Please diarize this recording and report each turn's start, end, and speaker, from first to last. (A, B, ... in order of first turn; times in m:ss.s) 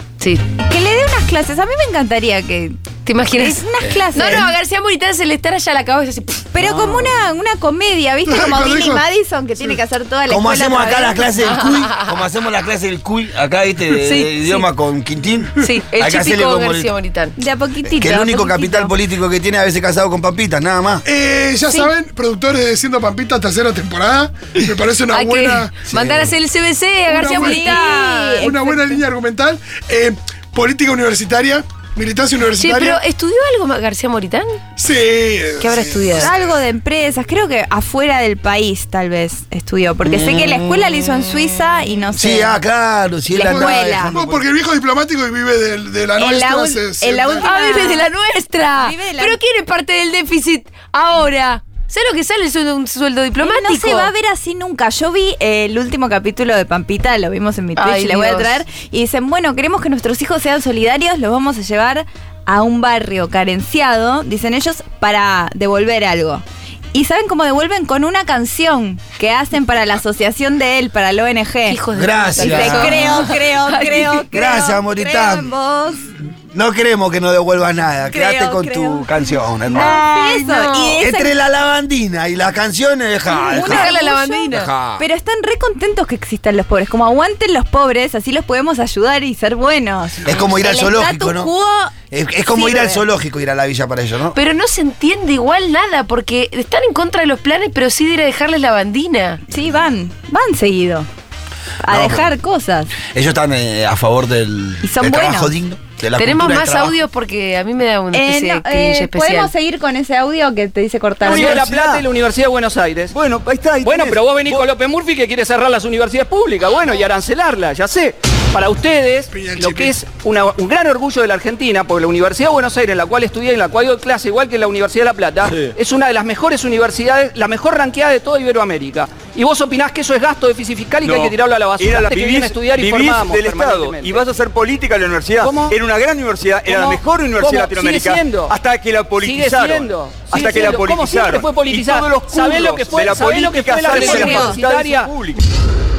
0:00.6-0:02.8 A
0:03.0-0:03.6 B
0:03.3-0:04.5 A
0:03.8-0:04.3 C
0:04.1-0:06.4 B
0:06.5-0:11.3 A
0:06.6-0:07.1 C
0:08.2-0:09.0 D
0:10.3-0:16.9 C
0:11.4-0:12.2 B
0:13.9-0:14.6 B
0:15.6-0:17.4 B
0:17.4-0:18.9 A
0:17.8-0:21.0 C
0:21.0-0:25.8 D
0:25.1-0:28.6 B
0:25.9-0:26.3 C
0:27.1-0:33.0 D
0:27.2-0:28.5 A
0:32.6-0:34.6 B
0:34.8-0:36.6 D
0:35.6-0:36.3 B
0:36.2-0:42.6 A
0:40.0-0:40.9 C
0:42.1-0:44.4 C
0:43.3-0:44.1 A
0:43.4-0:47.5 D
0:46.2-0:48.1 A
0:47.4-0:54.1 B
0:48.8-0:49.4 A
0:53.4-1:11.8 A
0:57.8-0:58.6 B
1:11.7-1:14.2 B
1:11.9-1:13.3 C
1:12.4-1:16.1 A
1:14.3-1:15.5 C
1:16.5-1:20.1 C
1:18.1-1:19.1 A
1:19.7-1:21.3 A
1:19.7-1:21.0 B
1:21.0-1:25.0 C
1:23.4-1:32.0 A
1:23.4-1:24.7 B
1:30.2-1:31.5 C
1:32.1-1:34.4 C
1:32.5-1:33.0 A
1:34.3-1:39.4 B
1:39.5-1:41.1 A
1:41.8-1:42.9 A
1:41.8-1:42.3 C
1:43.1-1:47.0 C
1:44.8-1:45.5 A
1:46.2-1:49.5 B
1:48.1-1:51.6 A
1:51.2-1:53.1 E
1:51.2-1:52.0 F
1:53.1-1:54.6 F
1:53.8-2:14.2 E
1:59.3-2:00.0 D
2:05.4-2:05.7 F
2:11.0-2:25.4 F
2:15.4-2:15.7 E
2:16.6-2:18.5 E
2:19.2-2:25.1 E
2:23.9-2:24.6 A